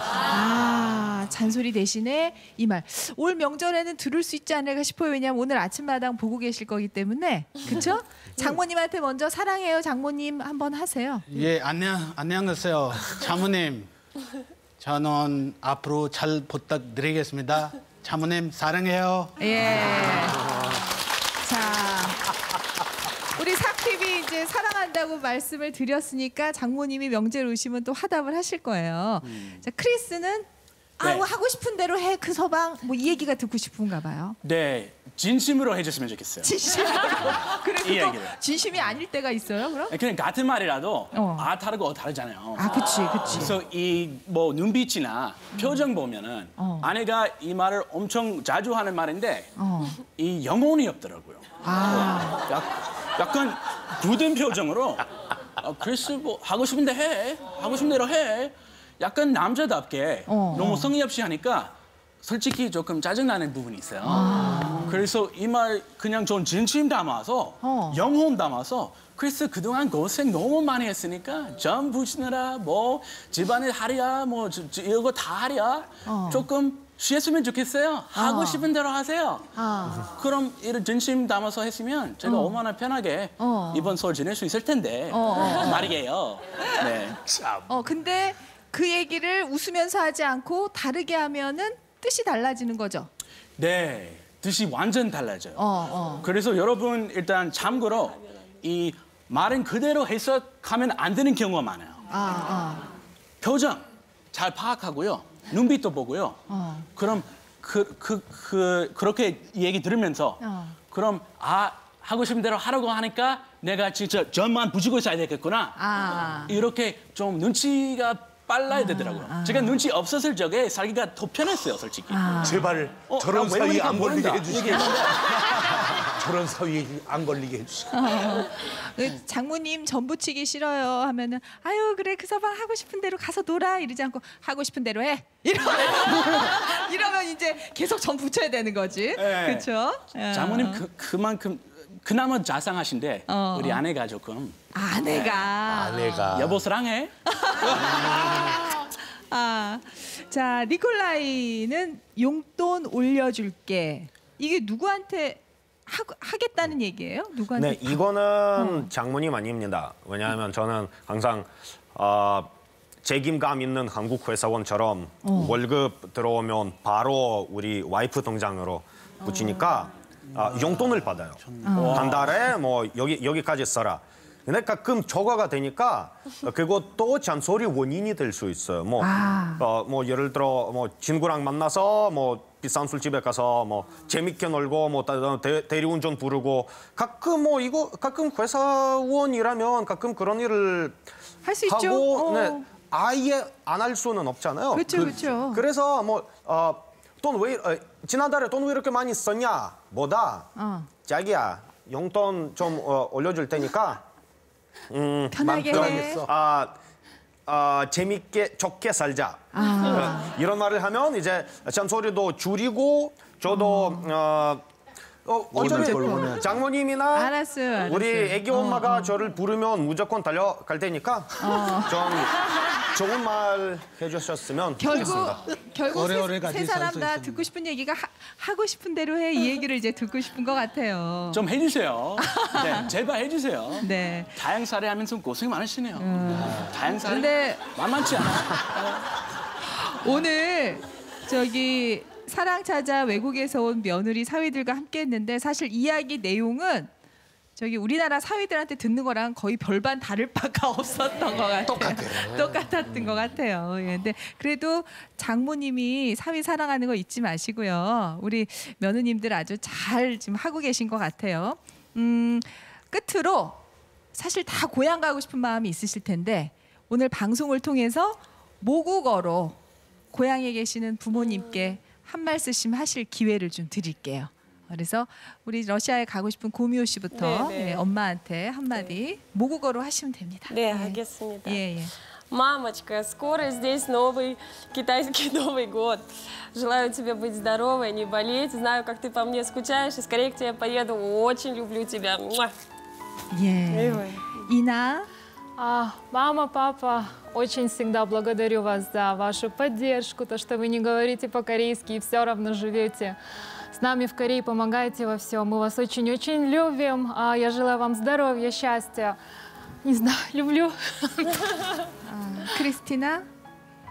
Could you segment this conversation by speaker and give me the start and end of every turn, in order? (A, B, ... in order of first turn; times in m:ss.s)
0:00.2-0:11.2 A
0:11.3-0:13.9 B
0:14.8-0:20.2 B
0:19.4-0:20.4 A
0:21.4-0:22.3 A
0:23.3-0:30.5 A
0:29.3-0:29.6 C
0:31.0-0:34.4 A
0:31.0-0:31.2 C
0:34.4-0:38.4 C
0:36.4-0:40.0 A
0:39.9-1:19.5 C
0:41.1-0:41.5 A
0:42.6-0:43.6 A
0:45.5-0:45.8 A
0:46.6-0:46.9 A
0:49.6-0:50.0 A
0:51.6-0:52.4 A
1:00.3-1:00.9 A
1:04.0-1:04.9 A
1:07.6-1:08.0 A
1:16.0-1:16.4 A
1:18.1-1:18.7 A
1:19.5-1:20.1 A
1:20.1-1:27.2 C
1:22.2-1:22.6 A
1:23.4-1:23.9 A
1:25.1-1:25.9 A
1:27.2-1:27.7 D
1:27.7-1:33.1 A
1:33.6-1:35.6 C
1:35.6-1:36.2 A
1:36.2-1:42.0 C
1:42.1-1:42.9 A
1:43.4-1:46.4 C
1:46.5-1:46.9 A
1:47.0-1:55.8 C
1:50.4-1:50.8 A
1:55.8-1:56.6 A
1:56.4-2:02.4 C
1:58.7-1:59.8 A
2:02.1-2:02.6 A
2:02.4-2:08.1 D
2:03.1-2:05.8 C
2:07.9-2:20.8 A
2:19.2-2:19.7 C
2:20.3-2:24.6 C
2:23.3-2:23.8 A
2:24.7-2:26.3 A
2:25.1-2:26.6 D
2:26.3-2:27.1 C
2:27.3-2:28.6 A
2:27.7-2:28.6 D
2:29.3-2:38.0 A
2:37.6-2:42.5 E
2:38.5-2:38.9 A
2:43.0-3:11.0 E
2:45.2-2:45.6 A
2:50.3-2:51.7 B
2:51.6-2:52.2 A
2:51.7-2:52.3 C
2:59.0-2:59.6 A
3:11.4-3:12.7 A
3:11.6-3:20.5 E
3:14.7-3:15.6 A
3:20.6-3:20.9 A
3:21.0-3:24.0 E
3:24.9-3:26.8 E
3:25.3-3:26.2 A
3:25.4-3:26.3 D
3:27.4-3:34.6 E
3:29.5-3:30.3 A
3:33.5-3:34.1 A
3:35.2-3:45.4 E
3:35.5-3:36.6 D
3:35.6-3:36.2 B
3:35.9-3:36.3 A
3:37.1-3:39.1 A
3:41.4-3:42.2 A
3:44.8-3:51.4 A
3:45.9-3:47.5 B
3:51.3-3:58.7 C
3:52.2-3:52.8 A
3:53.8-3:54.4 A
3:56.0-3:57.7 A
3:59.6-4:06.9 A
4:07.6-4:23.6 A
4:11.7-4:12.6 D
4:24.1-4:29.6 A
4:30.1-4:41.9 A
4:31.2-4:31.7 F
4:37.1-4:37.9 F
4:40.5-4:41.6 F
4:42.3-4:52.5 F
4:53.3-4:55.1 A
4:53.7-4:54.2 F
4:55.6-5:03.2 G
5:03.7-5:09.2 G
5:09.8-5:11.6 G
5:12.0-5:13.3 A